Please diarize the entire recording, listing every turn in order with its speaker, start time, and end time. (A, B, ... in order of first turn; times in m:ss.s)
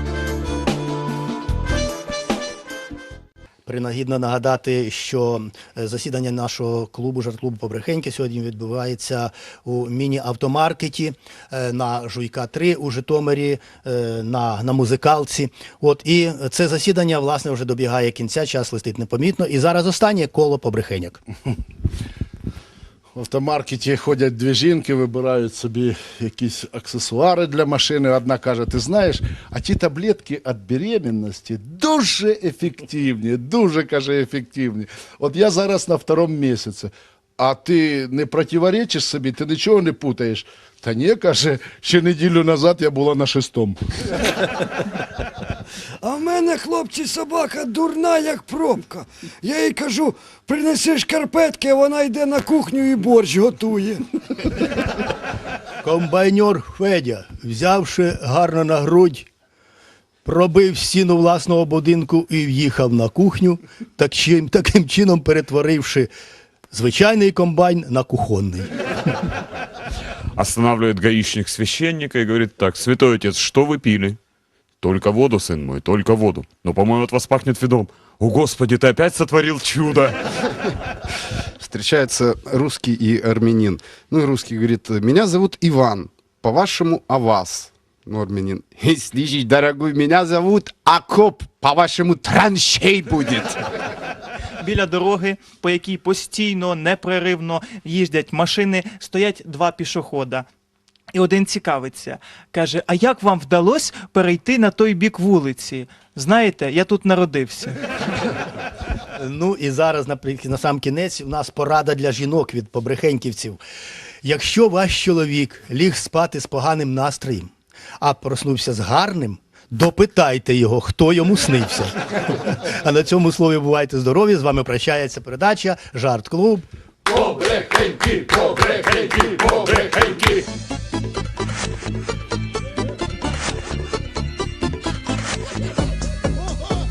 0:03.6-0:21.2 A
0:23.1-0:43.8 B
0:46.0-0:54.0 C
0:55.8-0:59.3 A
1:00.2-1:06.1 A
1:06.7-1:08.7 A
1:10.4-1:14.2 D
1:14.8-1:20.5 D
1:21.6-1:33.6 E
1:34.6-1:40.4 F
1:41.1-1:47.8 F
1:49.1-1:53.6 A
1:54.2-2:06.7 A
2:07.1-2:10.4 D